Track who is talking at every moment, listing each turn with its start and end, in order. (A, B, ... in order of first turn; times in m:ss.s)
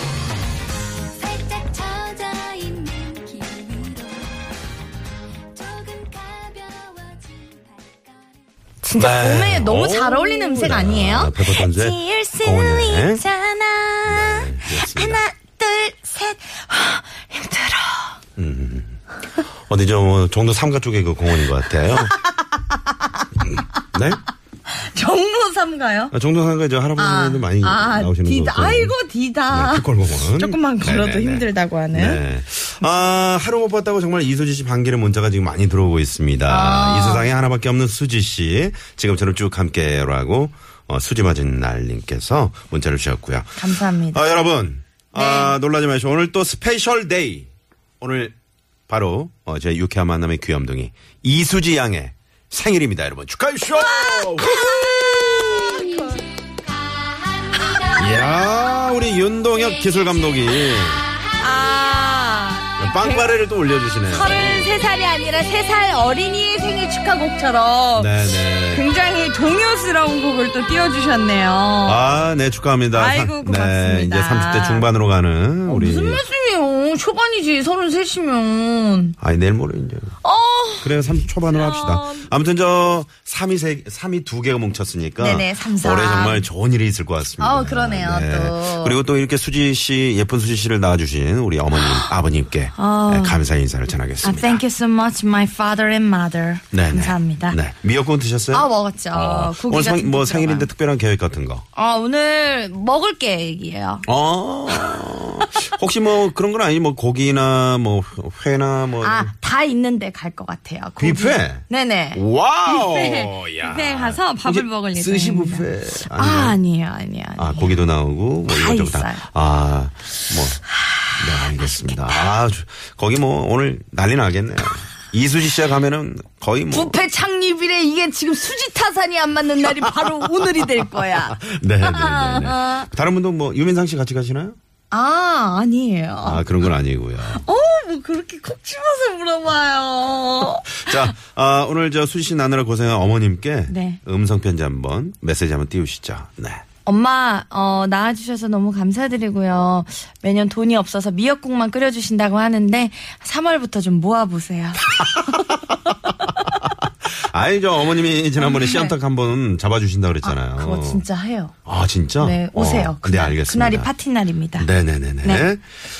0:01.2-0:04.4 A
0:05.5-0:08.4 A
0:08.8-0:18.2 B
0:09.0-0:13.2 C
0:14.1-0:15.2 C
0:18.4-0:19.0 C
0:19.7-0:22.1 C
0:22.0-0:22.7 B
0:23.9-0:24.2 C
0:24.7-0:26.2 B
0:26.1-0:28.9 C
0:27.0-0:32.2 B
0:29.5-0:47.5 C
0:36.5-0:37.3 B
0:43.6-0:44.2 B
0:45.1-0:45.6 B
0:48.0-0:48.3 C
0:48.9-0:55.8 C
0:53.8-0:56.2 B
0:57.6-0:58.2 B
0:58.0-1:01.0 C
1:01.3-1:03.3 B
1:02.8-1:04.7 C
1:04.1-1:08.2 B
1:07.9-1:08.9 C
1:08.7-1:12.2 B
1:11.8-1:16.2 C
1:12.9-1:14.9 B
1:15.6-1:19.2 B
1:19.2-1:20.1 C
1:20.2-1:22.3 B
1:20.8-1:34.6 C
1:25.2-1:26.4 B
1:27.4-1:29.0 B
1:31.8-1:32.1 B
1:32.8-1:33.4 B
1:34.2-1:37.6 B
1:36.7-1:41.6 C
1:38.5-1:40.7 B
1:41.8-1:44.1 B
1:44.1-1:49.3 C
1:44.7-1:45.7 B
1:49.0-1:57.8 B
1:51.0-1:51.6 C
1:52.1-1:56.6 C
1:57.4-2:00.6 C
1:58.5-1:59.3 B
2:00.7-2:02.3 B
2:01.2-2:07.0 C
2:06.7-2:12.9 B
2:09.8-2:14.6 C
2:14.9-2:16.5 B
2:16.2-2:17.4 C
2:17.3-2:21.0 B
2:20.7-2:26.6 C
2:23.7-2:24.0 B
2:26.8-2:34.9 B
2:34.9-2:41.0 C
2:38.4-2:38.9 B
2:40.2-2:41.5 B
2:41.6-2:43.9 C
2:42.2-2:44.7 B
2:44.6-2:45.6 C
2:45.2-2:45.5 B